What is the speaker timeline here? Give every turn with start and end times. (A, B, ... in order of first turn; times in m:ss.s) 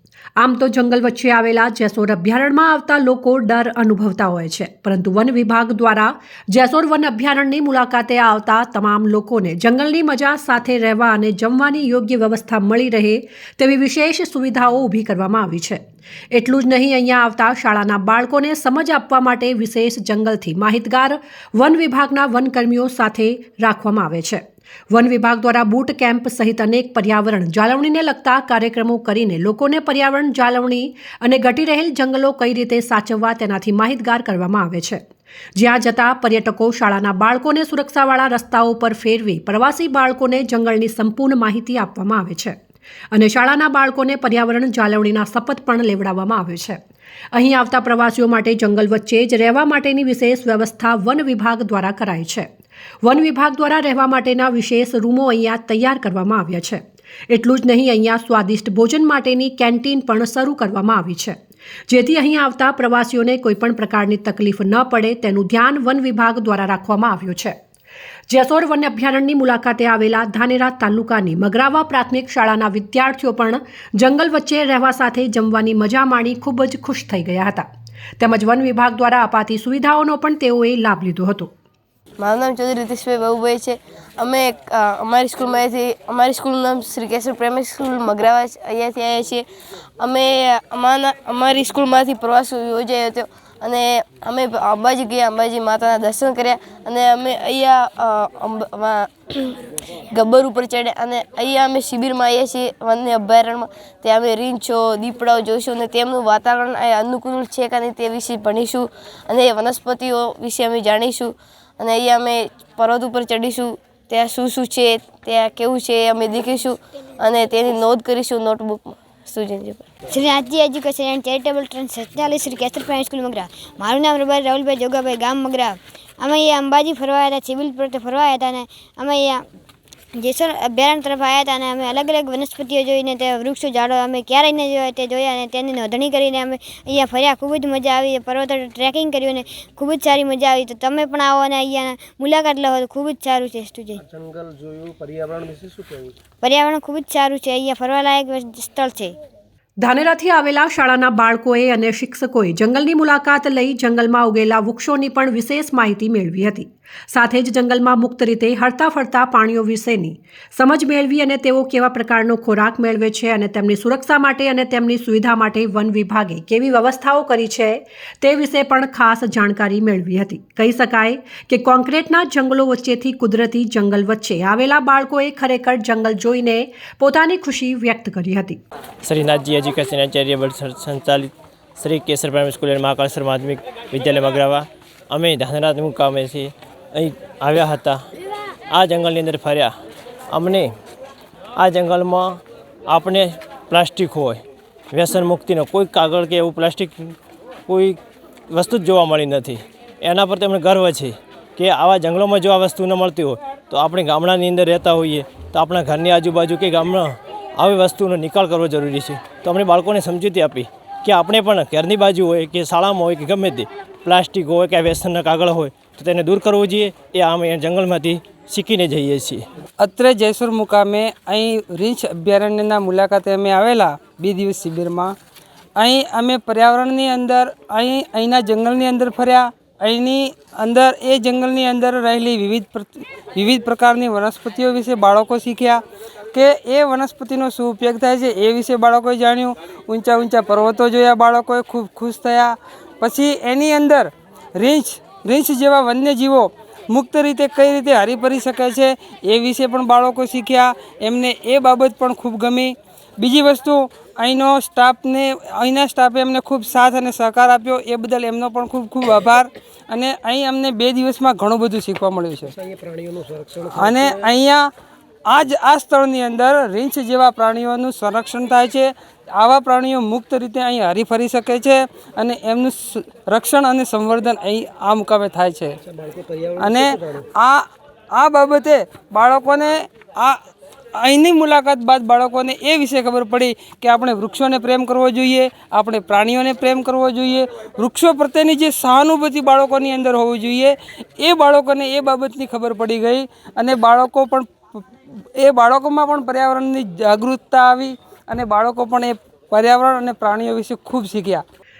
0:00.4-0:15.8 A
0:16.3-0:35.0 A
0:35.6-0:42.6 A
0:43.1-0:46.8 A
0:47.3-0:52.5 A
0:53.0-1:01.4 A
1:01.9-1:07.6 A
1:08.3-1:17.7 A
1:18.2-1:21.5 A
1:22.2-1:29.4 B
1:30.0-1:39.5 B
1:40.1-1:59.9 B
2:00.1-2:09.4 C
2:10.1-2:24.0 C
2:24.0-2:26.1 D
2:26.4-2:29.1 C
2:29.8-2:58.6 A
2:59.0-3:08.0 E
3:08.7-3:09.7 E
3:10.3-3:10.7 E
3:11.6-3:17.1 E
3:17.7-3:18.0 E
3:18.5-3:39.4 E
3:39.8-3:45.2 F
3:45.8-3:55.8 F
3:56.3-4:22.5 F
4:22.6-4:24.1 D
4:23.7-4:24.7 F
4:25.3-4:35.8 F
4:35.9-4:37.2 D
4:36.6-4:40.4 F
4:41.0-4:54.8 F
4:55.4-5:01.4 F